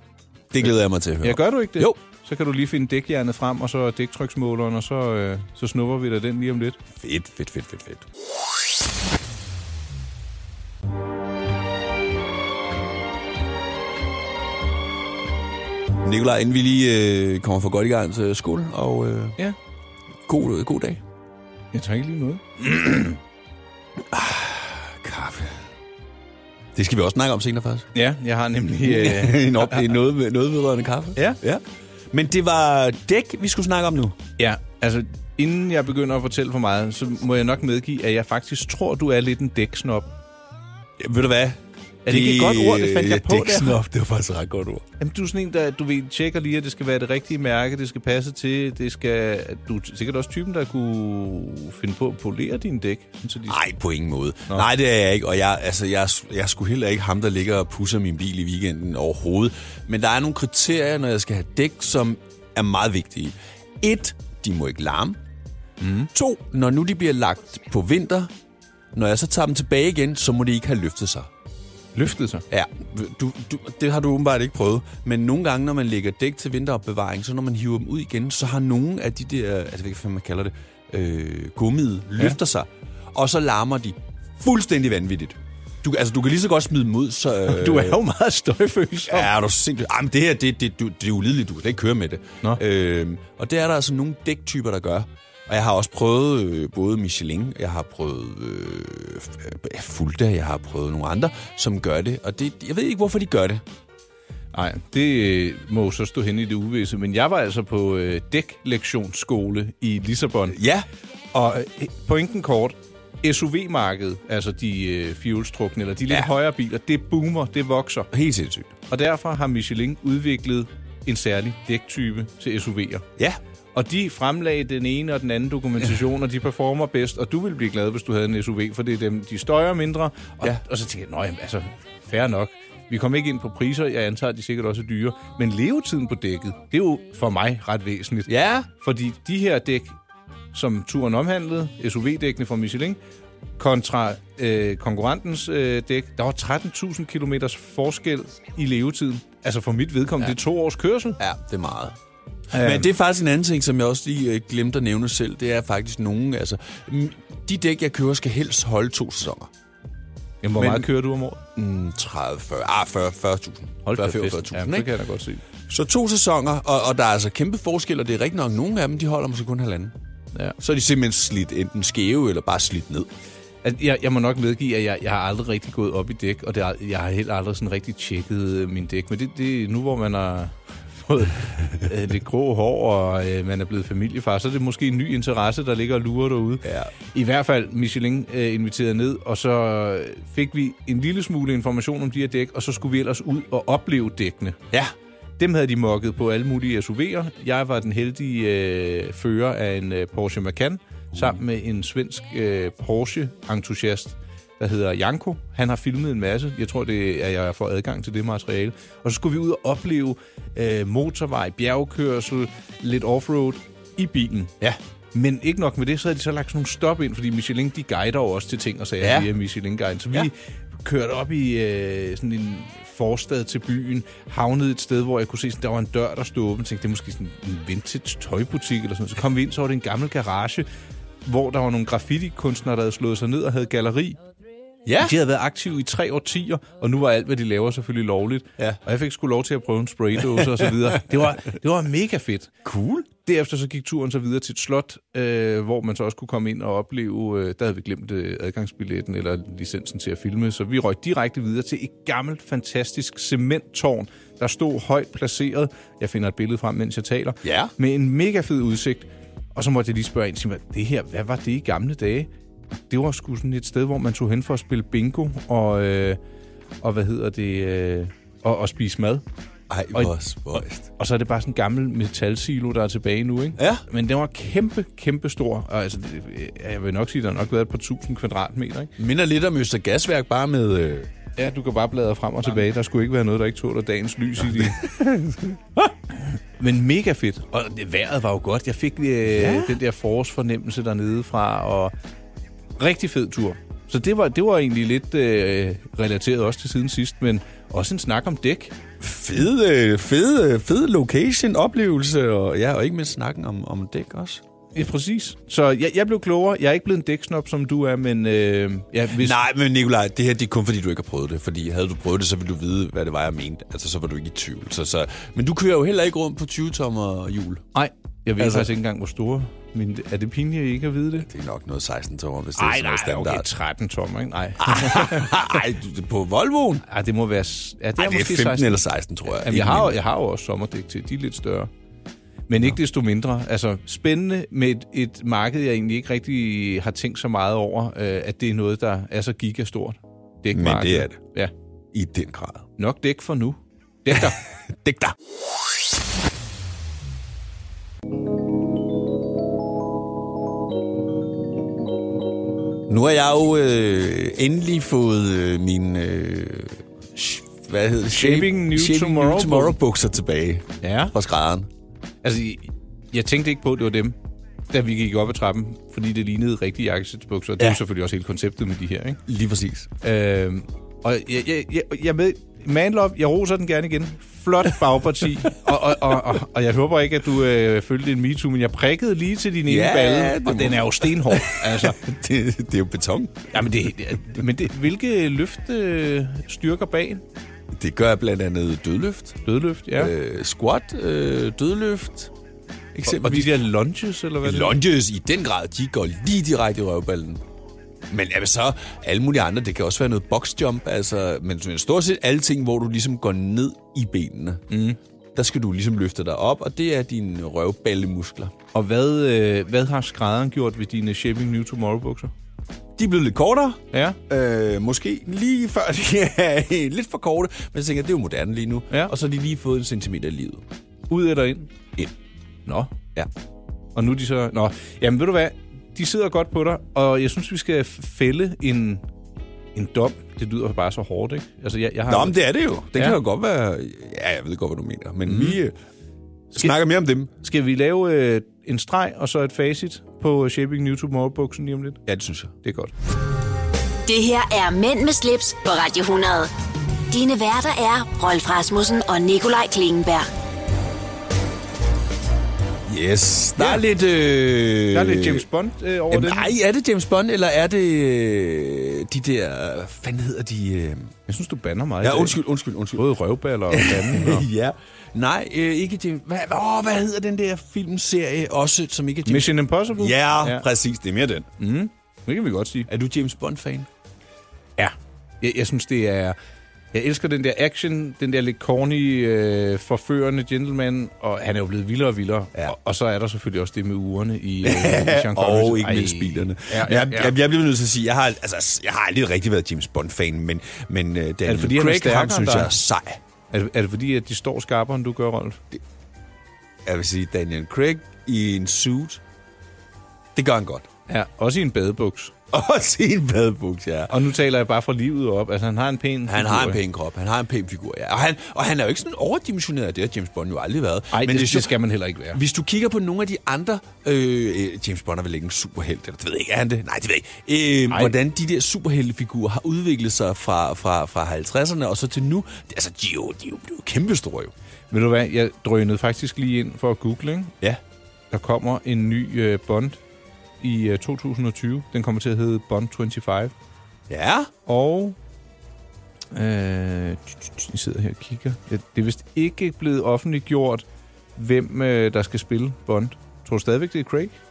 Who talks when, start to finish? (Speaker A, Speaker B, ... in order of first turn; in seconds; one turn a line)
Speaker A: 0.5-2.0
Speaker B: 1.2-6.8
Speaker A: 7.0-8.1
Speaker A: 16.0-19.4
Speaker A: 20.3-21.0
Speaker B: 21.7-23.2
Speaker A: 24.0-25.6
Speaker A: 26.7-27.9
Speaker B: 27.9-30.0
Speaker A: 28.7-34.2
Speaker B: 34.4-40.1
Speaker A: 41.0-44.9
Speaker B: 42.1-43.8
Speaker B: 45.0-53.7
Speaker A: 53.5-65.2
Speaker B: 65.8-66.1
Speaker A: 66.1-68.3
Speaker A: 68.9-71.3
Speaker B: 72.0-72.4
Speaker A: 72.5-88.0
Speaker B: 87.5-89.3
Speaker A: 89.1-103.6
Speaker B: 104.5-110.6
Speaker A: 110.5-110.9
Speaker B: 111.3-118.1
Speaker A: 118.1-118.8
Speaker B: 118.9-123.1
Speaker B: 123.8-140.0
Speaker A: 138.3-138.7
Speaker B: 140.5-143.0
Speaker B: 143.6-151.2
Speaker A: 151.2-152.0
Speaker B: 152.5-152.9
Speaker A: 152.5-159.5
Speaker B: 160.4-161.4
Speaker A: 160.6-160.9
Speaker A: 161.6-164.9
Speaker B: 163.8-165.4
Speaker A: 165.7-169.9
Speaker A: 170.6-173.1
Speaker B: 173.6-194.6
Speaker A: 186.6-186.9
Speaker B: 195.4-214.5
Speaker B: 215.1-230.7
Speaker A: 219.0-219.3
Speaker B: 231.2-234.2
Speaker A: 234.9-235.2
Speaker B: 235.0-242.6
Speaker A: 240.4-240.7
Speaker A: 242.6-243.1
Speaker B: 243.2-262.3
Speaker A: 257.4-257.7
Speaker B: 262.9-266.2
Speaker B: 266.8-269.2
Speaker A: 269.7-270.9
Speaker B: 269.9-278.9
Speaker A: 273.6-273.8
Speaker A: 279.0-281.1
Speaker B: 281.4-284.9
Speaker A: 284.5-285.6
Speaker B: 286.1-291.9
Speaker A: 289.3-289.8
Speaker B: 292.8-298.8
Speaker A: 299.0-304.4
Speaker B: 304.8-309.4
Speaker A: 309.1-317.7
Speaker B: 317.7-321.3
Speaker A: 318.4-318.7
Speaker A: 321.3-323.5
Speaker B: 322.6-325.6
Speaker A: 324.6-326.9
Speaker B: 326.9-331.7
Speaker A: 328.0-330.0
Speaker B: 332.5-341.5
Speaker A: 340.5-341.2
Speaker A: 341.9-342.7
Speaker B: 342.8-344.4
Speaker A: 344.1-345.2
Speaker A: 352.9-361.7
Speaker B: 358.1-359.8
Speaker B: 360.8-361.1
Speaker B: 362.2-364.2
Speaker B: 364.7-369.2
Speaker A: 369.3-369.9
Speaker B: 370.0-382.0
Speaker A: 379.7-383.5
Speaker B: 383.5-387.2
Speaker A: 387.7-389.4
Speaker B: 389.4-390.1
Speaker A: 389.9-392.3
Speaker A: 392.9-393.6
Speaker B: 393.1-394.8
Speaker A: 394.4-397.4
Speaker A: 398.1-404.6
Speaker B: 404.7-405.0
Speaker A: 405.4-408.5
Speaker B: 408.7-412.3
Speaker A: 413.0-420.6
Speaker B: 413.9-414.2
Speaker B: 421.1-421.7
Speaker B: 422.7-422.9
Speaker B: 423.9-429.0
Speaker B: 429.8-432.4
Speaker A: 432.1-435.8
Speaker B: 432.9-433.2
Speaker B: 435.3-435.6
Speaker A: 436.5-437.3
Speaker B: 437.4-442.0
Speaker A: 442.1-442.5
Speaker B: 442.6-442.9
Speaker C: 444.1-446.5
Speaker C: 447.1-450.3
Speaker A: 452.9-455.4
Speaker B: 453.6-453.8
Speaker B: 454.9-456.5
Speaker A: 456.1-461.1
Speaker B: 461.3-462.4
Speaker A: 462.0-463.1
Speaker B: 462.9-464.5
Speaker A: 463.7-471.5
Speaker B: 469.3-470.7
Speaker B: 471.6-472.9
Speaker A: 472.9-473.9
Speaker B: 474.8-476.4
Speaker B: 476.9-487.4
Speaker A: 484.6-493.2
Speaker B: 491.4-492.7
Speaker B: 493.5-495.6
Speaker A: 496.9-499.2
Speaker A: 500.4-500.9
Speaker B: 501.1-502.3
Speaker A: 502.5-504.2
Speaker B: 504.1-506.8
Speaker A: 506.3-511.8
Speaker B: 511.1-512.4
Speaker A: 512.3-524.5
Speaker B: 517.9-518.1
Speaker B: 524.9-527.5
Speaker B: 528.3-530.0
Speaker B: 530.6-533.5
Speaker A: 534.1-534.5
Speaker B: 534.7-535.2
Speaker B: 536.3-540.9
Speaker B: 541.4-544.3